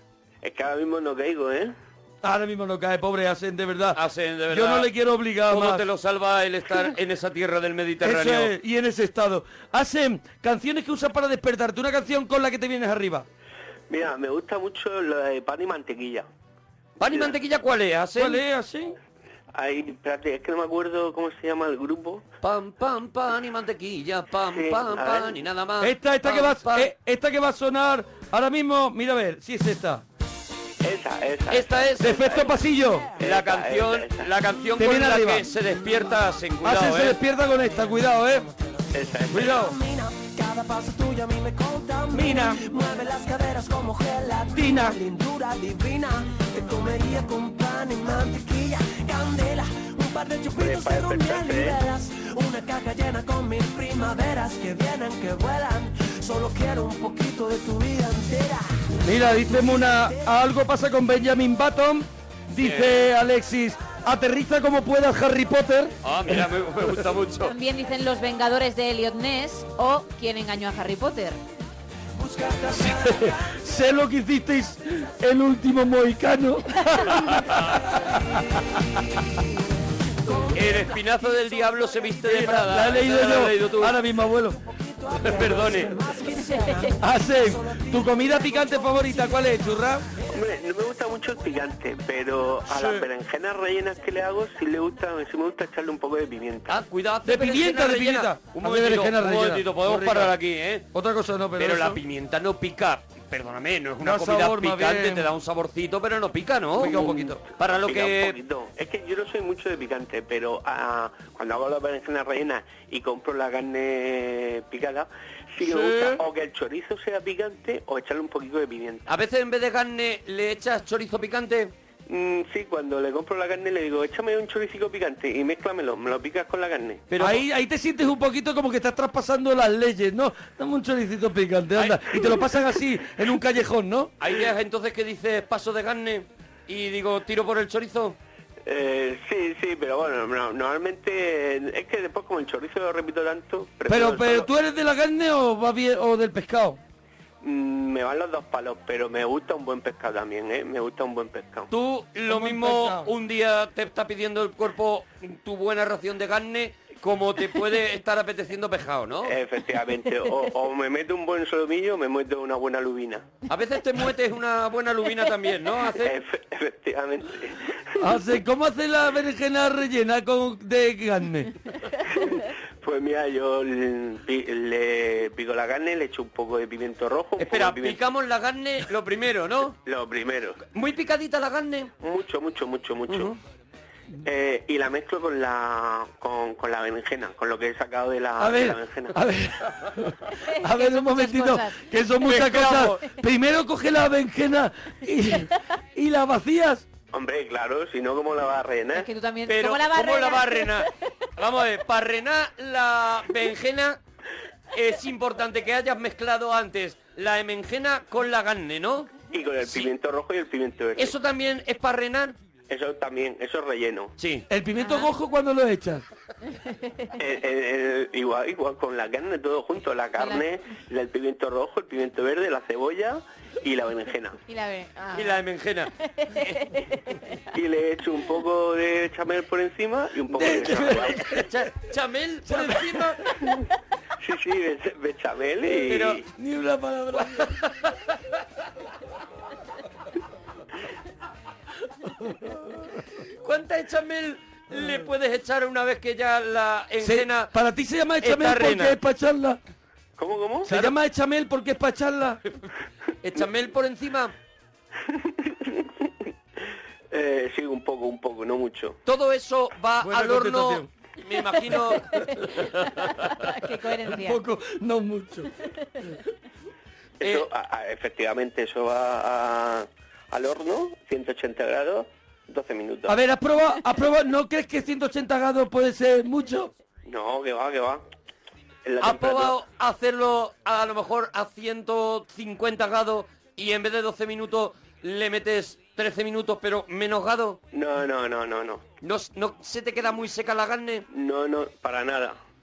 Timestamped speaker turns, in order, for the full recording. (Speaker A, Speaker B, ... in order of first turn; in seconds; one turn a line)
Speaker A: 0.4-1.7
Speaker B: 2.2-5.8
Speaker C: 3.9-4.9
Speaker C: 5.5-8.5
Speaker B: 8.0-13.2
Speaker A: 13.9-16.3
Speaker C: 17.0-18.4
Speaker A: 17.0-17.3
Speaker B: 18.2-19.0
Speaker A: 19.5-22.2
Speaker C: 22.4-26.9
Speaker A: 24.5-25.4
Speaker B: 25.8-30.0
Speaker A: 30.8-32.5
Speaker C: 31.5-32.4
Speaker B: 32.0-33.1
Speaker A: 33.2-34.3
Speaker C: 33.2-37.2
Speaker B: 34.8-35.5
Speaker B: 36.6-38.5
Speaker A: 38.9-39.5
Speaker B: 39.3-39.7
Speaker D: 39.3-60.4
Speaker B: 42.1-42.6
Speaker B: 44.5-45.0
Speaker A: 50.5-51.8
Speaker B: 59.0-66.4
Speaker C: 62.6-63.0
Speaker C: 66.0-67.5
Speaker E: 67.4-71.4
Speaker D: 72.2-73.6
Speaker B: 72.7-78.0
Speaker D: 80.2-83.1
Speaker C: 80.5-84.0
Speaker B: 82.2-84.6
Speaker D: 84.1-90.4
Speaker C: 85.2-85.9
Speaker B: 87.0-90.1
Speaker A: 90.3-96.8
Speaker B: 92.7-93.1
Speaker C: 96.7-100.9
Speaker B: 97.2-100.3
Speaker B: 100.9-102.0
Speaker C: 101.6-108.4
Speaker B: 104.0-105.3
Speaker B: 106.8-107.4
Speaker A: 107.7-119.1
Speaker B: 115.6-116.2
Speaker C: 119.1-121.7
Speaker A: 122.1-127.1
Speaker C: 127.1-127.4
Speaker B: 127.2-134.1
Speaker C: 131.8-132.3
Speaker C: 134.2-138.2
Speaker A: 138.7-144.5
Speaker B: 143.9-146.8
Speaker A: 147.4-151.7
Speaker C: 151.7-159.4
Speaker B: 152.3-153.1
Speaker A: 159.2-163.3
Speaker C: 163.5-166.2
Speaker A: 166.0-167.7
Speaker B: 168.0-171.5
Speaker A: 172.1-178.0
Speaker C: 177.4-179.8
Speaker A: 179.8-180.6
Speaker C: 180.7-181.9
Speaker A: 182.0-183.3
Speaker C: 183.1-183.4
Speaker A: 184.2-189.2
Speaker B: 188.4-196.8
Speaker E: 190.4-191.9
Speaker C: 192.2-193.0
Speaker A: 197.1-199.1
Speaker E: 198.9-200.9
Speaker C: 199.5-204.0
Speaker C: 204.7-209.1
Speaker A: 209.3-211.1
Speaker C: 209.6-209.9
Speaker C: 210.9-212.3
Speaker A: 212.7-214.1
Speaker C: 214.2-214.5
Speaker B: 214.5-216.0
Speaker E: 214.8-215.1
Speaker E: 216.6-217.1
Speaker A: 217.2-224.4
Speaker E: 220.2-220.4
Speaker E: 224.4-225.4
Speaker C: 225.1-226.5
Speaker E: 226.0-227.2
Speaker A: 227.5-231.2
Speaker B: 230.3-231.5
Speaker C: 230.9-233.2
Speaker B: 232.4-233.2
Speaker A: 234.2-236.2
Speaker C: 235.9-236.2
Speaker B: 236.2-237.9
Speaker C: 243.4-247.5
Speaker B: 247.0-249.6
Speaker C: 248.2-249.0
Speaker A: 250.2-250.7
Speaker B: 250.6-252.4
Speaker C: 250.7-250.9
Speaker C: 253.2-254.3
Speaker A: 255.1-256.1
Speaker A: 257.1-259.0
Speaker C: 259.1-263.1
Speaker B: 260.0-260.9
Speaker E: 262.1-264.4
Speaker B: 264.0-265.5
Speaker A: 267.2-273.2
Speaker B: 273.1-276.7
Speaker A: 277.1-278.0
Speaker A: 278.8-279.6
Speaker C: 279.0-287.6
Speaker A: 287.7-288.9
Speaker C: 289.0-291.1
Speaker A: 291.1-292.4